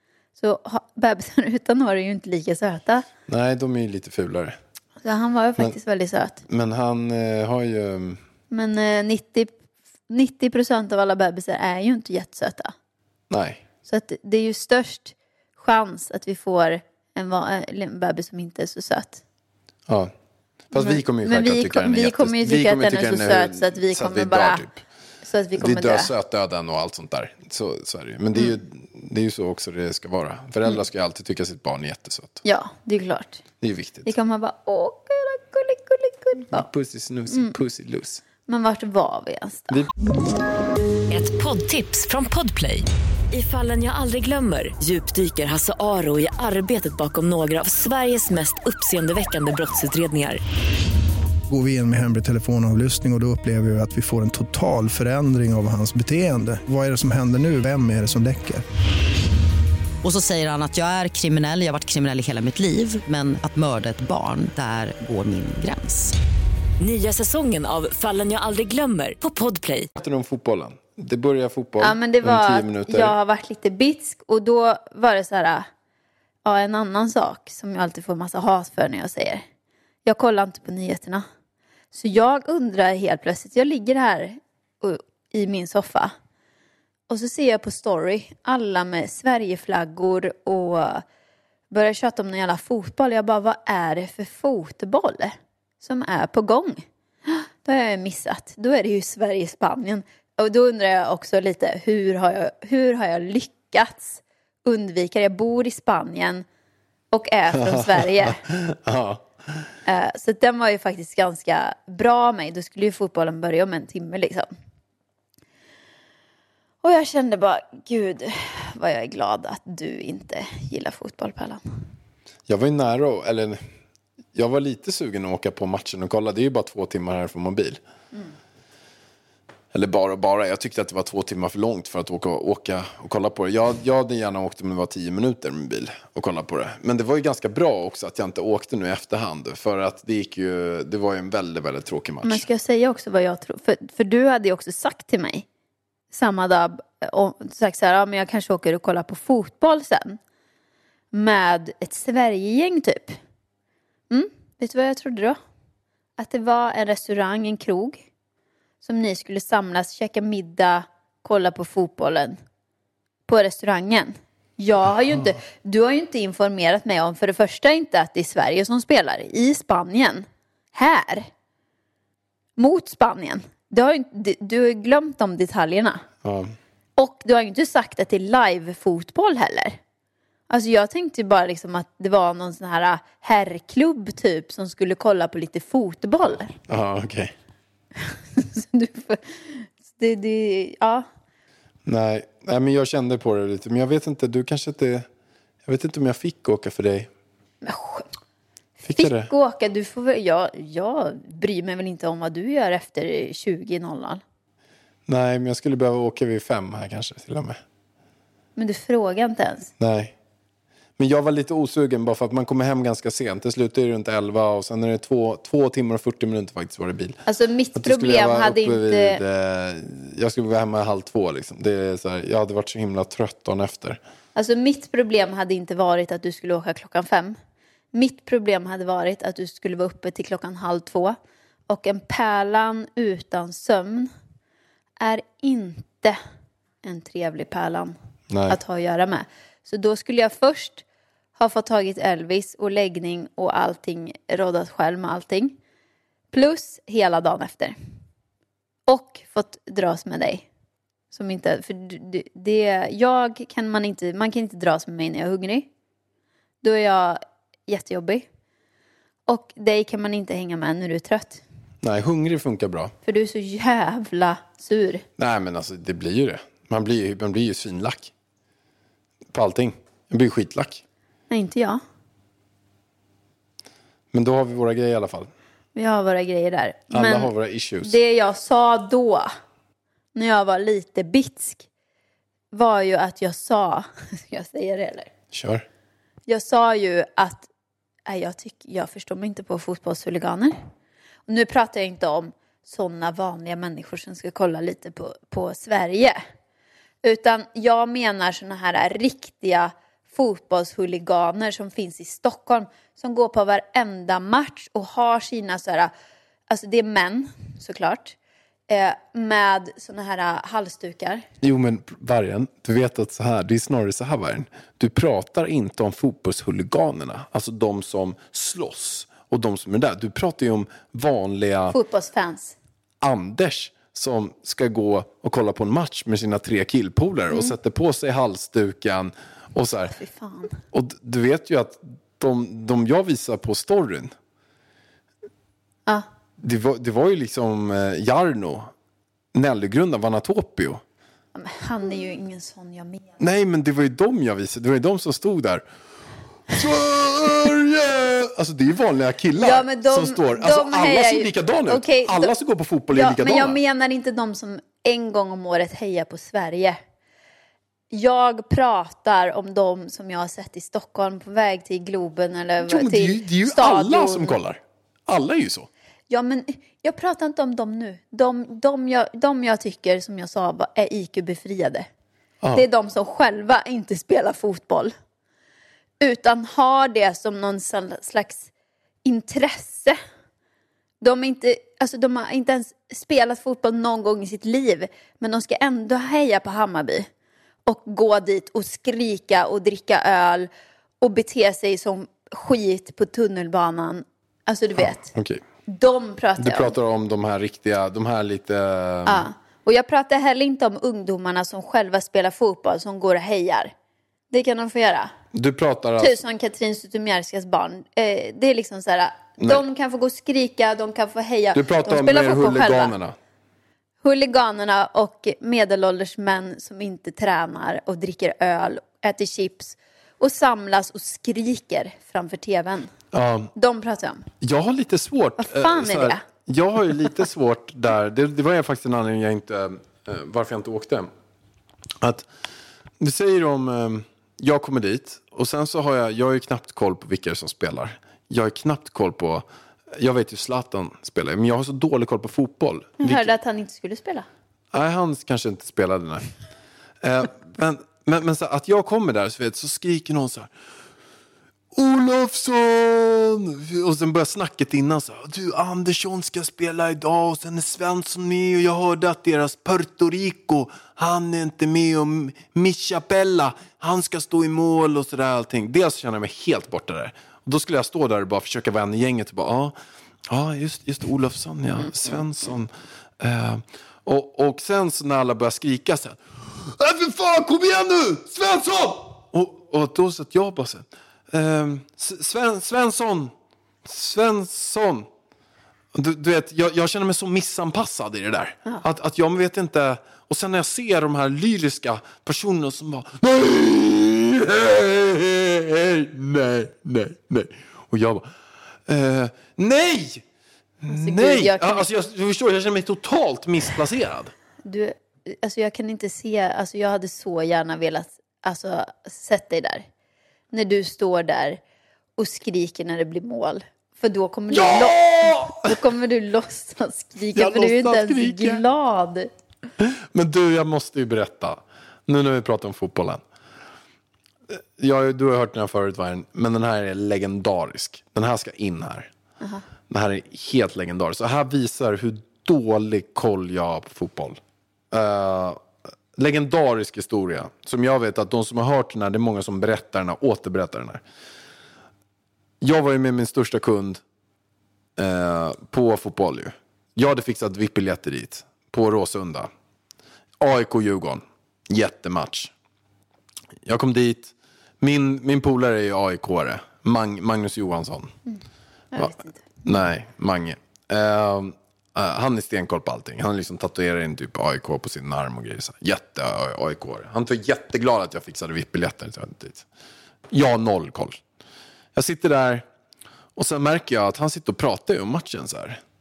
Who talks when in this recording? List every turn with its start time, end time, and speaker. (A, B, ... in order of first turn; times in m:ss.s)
0:00.4-0:03.1 A
0:03.3-0:04.6 B
0:05.0-0:06.4 A
0:06.5-0:08.2 B
0:08.5-0:12.7 A
0:13.3-0:13.6 B
0:13.9-0:19.2 A
0:19.9-0:20.1 B
0:20.7-0:24.8 B
0:20.8-0:24.6 A
0:25.2-0:26.1 A
0:25.6-0:32.4 B
0:32.4-0:33.4 A
0:33.6-0:34.2 B
0:34.0-0:36.7 A
0:36.5-0:38.2 B
0:38.5-0:39.8 A
0:41.1-0:50.4 C
0:51.5-0:58.6 D
1:00.0-1:06.2 E
1:06.8-1:09.9 C
1:10.0-1:13.2 B
1:11.8-1:15.7 A
1:16.4-1:19.4 A
1:20.0-1:21.2 A
1:21.9-1:26.1 A
1:27.1-1:31.0 A
1:31.7-1:46.4 A
1:47.1-1:48.4 A
1:47.5-1:49.7 B
1:49.9-1:54.5 A
1:56.8-2:01.6 A
2:02.5-2:03.6 B
2:04.4-2:07.8 B
2:09.7-2:22.4 B
2:22.2-2:25.5 A
2:26.1-2:30.2 A
2:31.1-2:33.2 A
2:34.1-2:35.4 A
2:36.2-2:38.0 A
2:38.8-2:42.4 A
2:43.3-2:51.3 A
2:52.6-2:56.1 A
2:56.2-2:56.5 B
2:57.0-2:59.8 A
3:00.5-3:06.5 A
3:06.7-3:07.4 B
3:08.0-3:11.1 A
3:11.9-3:15.1 B
3:15.6-3:17.1 B
3:17.6-3:18.1 A
3:18.8-3:19.3 B
3:18.9-3:24.2 A
3:25.1-3:27.6 B
3:28.6-3:29.7 A
3:29.8-3:30.2 B
3:31.0-3:37.2 B
3:37.2-3:39.2 A
3:37.8-3:44.0 B
3:44.4-3:47.4 A
3:47.9-3:51.2 A
3:51.7-3:54.1 A
3:55.0-3:56.2 A
3:56.8-3:58.0 A
3:58.3-3:58.6 B
3:58.5-4:00.8 A
4:01.4-4:05.6 A
4:06.3-4:07.8 A
4:08.9-4:10.5 A
4:11.1-4:15.7 A
4:16.6-4:18.2 A
4:19.3-4:21.4 A
4:21.8-4:22.9 B
4:23.1-4:25.0 A
4:25.2-4:28.1 B
4:29.3-4:30.8 B
4:31.3-4:31.8 A
4:34.1-4:35.3 B
4:35.8-4:37.3 A
4:36.9-4:38.0 B
4:37.8-4:39.3 A
4:40.2-4:41.7 A
4:42.5-4:45.1 A
4:45.3-4:45.6 B
4:46.3-4:47.5 A
4:48.1-4:50.6 A
4:51.3-4:56.2 A
4:57.0-5:05.9 A
5:06.5-5:08.2 A
5:08.7-5:11.2 A
5:11.4-5:21.8 B
5:21.7-5:22.6 A
5:23.0-5:30.0 B
5:30.0-5:30.5 A
5:30.7-5:34.2 B
5:36.4-5:38.7 B
5:39.3-5:40.8 B
5:41.4-5:43.2 A
5:43.2-5:45.6 B
5:46.5-5:53.6 B
5:49.4-5:52.3 A
5:52.9-5:56.8 A
5:57.9-6:04.4 A
6:02.6-6:05.7 B
6:06.1-6:11.9 A
6:12.5-6:14.9 A
6:16.0-6:18.5 A
6:19.0-6:20.0 A
6:21.0-6:27.1 A
6:27.7-6:30.5 A
6:31.0-6:35.1 A
6:35.1-6:35.4 B
6:35.7-6:36.8 A
6:36.4-6:39.2 B
6:39.0-6:43.7 A
6:44.3-6:45.1 A
6:45.3-6:46.2 B
6:46.0-6:52.9 A
6:51.5-6:53.2 B
6:54.0-7:02.9 A
7:03.1-7:03.5 B
7:03.5-7:04.3 A
7:04.4-7:11.1 B
7:05.4-7:06.2 A
7:12.0-7:12.3 B
7:13.0-7:23.3 B
7:23.0-7:24.3 A
7:24.7-7:26.2 B
7:27.0-7:30.5 B
7:31.7-7:49.8 B
7:50.3-8:03.3 B
8:03.8-8:05.1 B
8:05.9-8:18.3 B
8:18.9-8:20.2 B
8:20.8-8:24.3 B
8:20.9-8:21.9 A
8:24.6-8:29.8 A
8:30.5-8:31.6 A
8:32.2-8:39.3 A
8:34.5-8:35.8 B
8:37.4-8:38.6 B
8:39.8-8:43.2 B
8:44.5-8:49.1 B
8:49.9-9:01.0 B
9:02.6-9:04.0 B
9:05.0-9:09.5 B
9:10.4-9:12.5 B
9:13.6-9:18.2 B
9:18.9-9:19.7 A
9:19.0-9:29.6 B
9:30.3-9:31.2 B
9:32.0-9:32.6 B
9:33.4-9:35.8 B